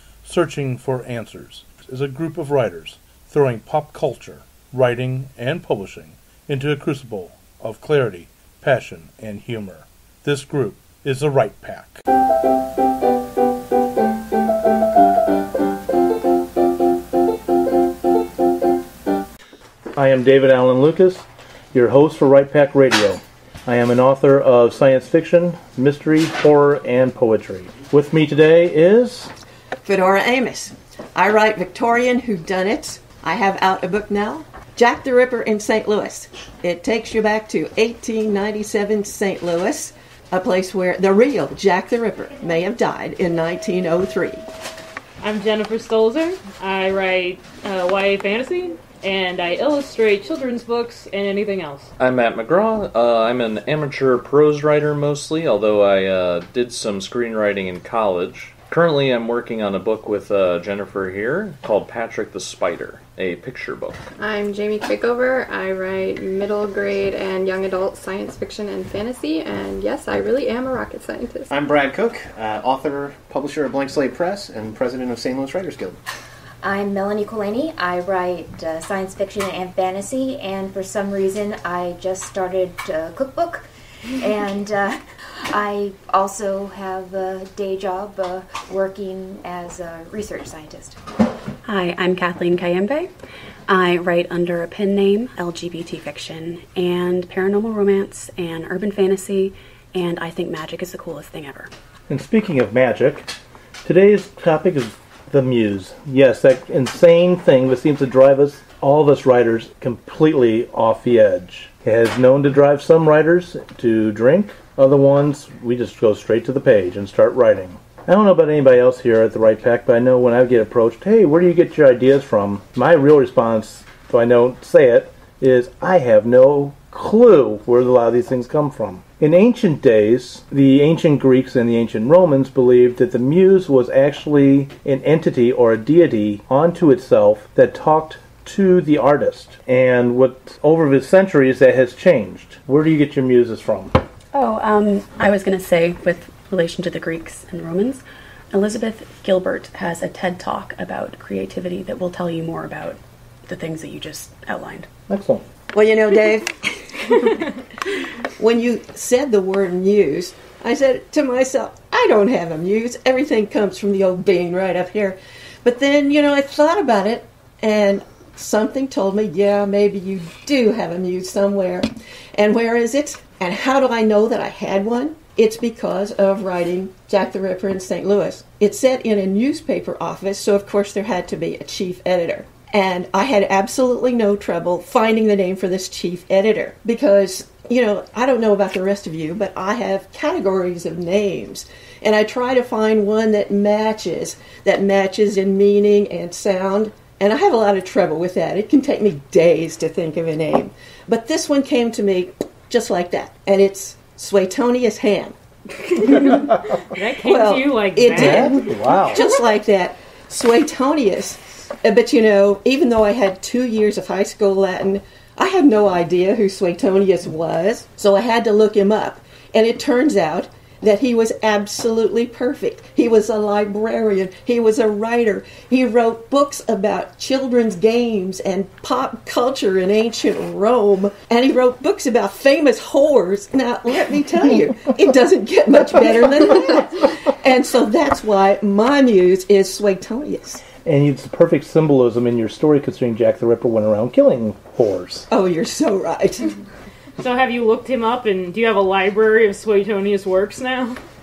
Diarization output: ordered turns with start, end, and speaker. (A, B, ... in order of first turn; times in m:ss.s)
0:00.2-0:12.0 A
0:20.0-0:29.3 A
0:29.8-0:44.4 B
0:45.2-0:51.9 C
0:52.0-1:04.0 D
1:04.2-1:11.5 E
1:11.5-1:16.0 F
1:16.6-1:31.0 G
1:31.6-1:33.1 H
1:33.7-1:41.7 H
1:42.1-1:43.3 A
1:43.8-2:24.0 A
2:24.3-2:34.9 H
2:35.1-2:35.4 A
2:35.7-2:37.4 B
2:38.2-3:25.4 B
3:25.9-4:00.6 B
3:26.0-3:28.7 C
3:28.1-3:29.2 A
4:00.8-4:05.3 A
4:05.3-4:06.6 B
4:07.2-4:11.0 C